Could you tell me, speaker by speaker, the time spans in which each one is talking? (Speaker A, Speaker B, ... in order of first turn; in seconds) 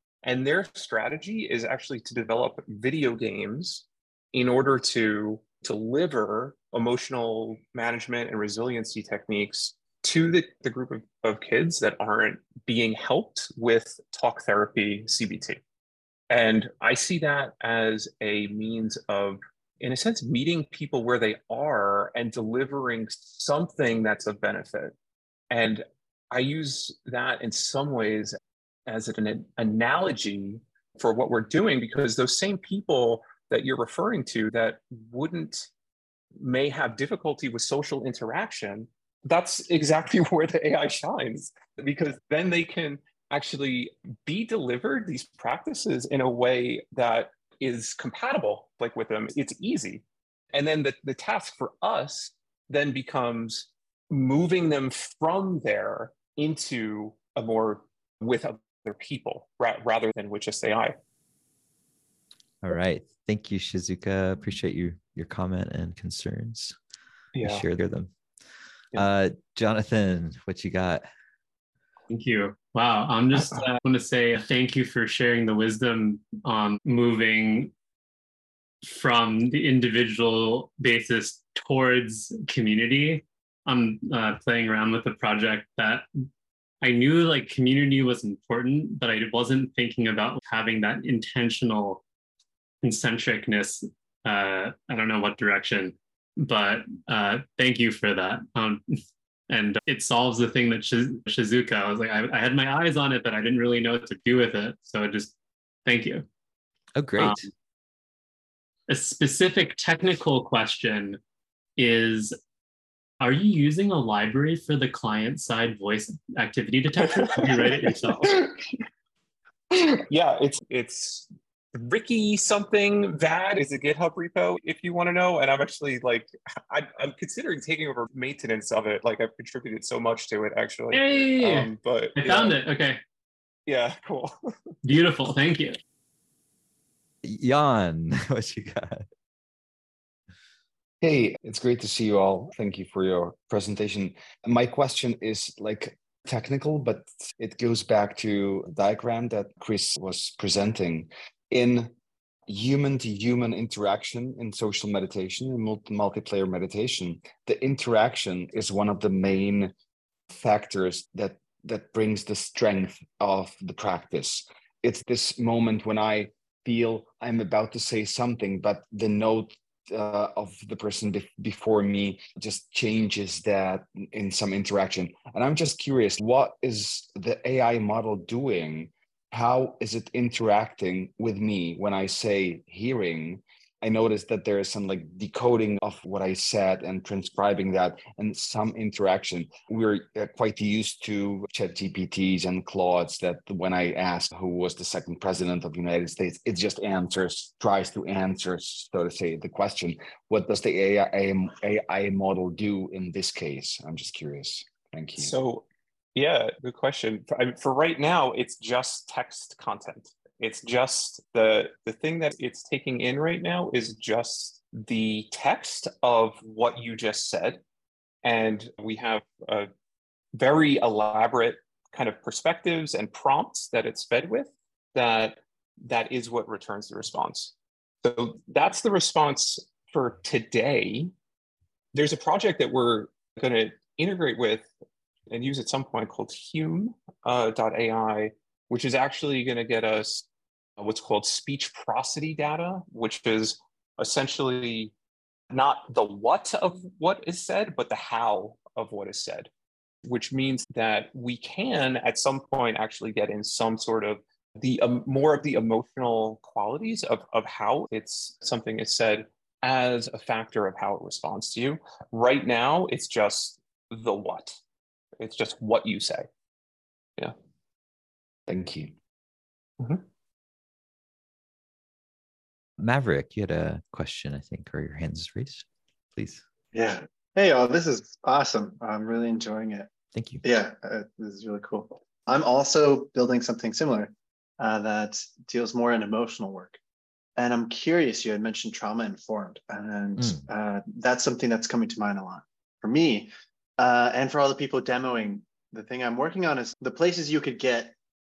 Speaker A: 0.2-15.6, 16.3-24.9, 25.5-28.4, 28.9-35.7, 36.4-61.0, 67.3-67.7, 73.3-73.7, 117.4-118.5, 119.7-132.6, 133.7-134.4, 205.2-217.6, 218.2-219.7, 220.3-231.1, 231.9-234.7, 235.3-240.3, 240.8-244.9, 245.5-249.5, 250.1-264.6, 265.2-266.3
Speaker B: 62.6-66.8, 67.4-68.1, 69.0-71.0, 107.0-107.5, 137.2-139.1, 272.8-275.6, 276.2-276.4, 280.1-280.4, 290.2-290.5
Speaker C: 72.1-77.7, 78.8-86.0, 86.8-92.0, 92.8-98.8, 99.5-105.3, 105.8-106.2, 107.2-107.5, 108.9-111.2, 111.8-112.4, 113.2-118.5, 130.9-133.0, 134.8-135.8
Speaker D: 141.0-151.9, 152.5-159.7, 160.3-205.3, 268.5-268.9
Speaker E: 276.7-279.9, 280.4-286.8, 287.4-297.9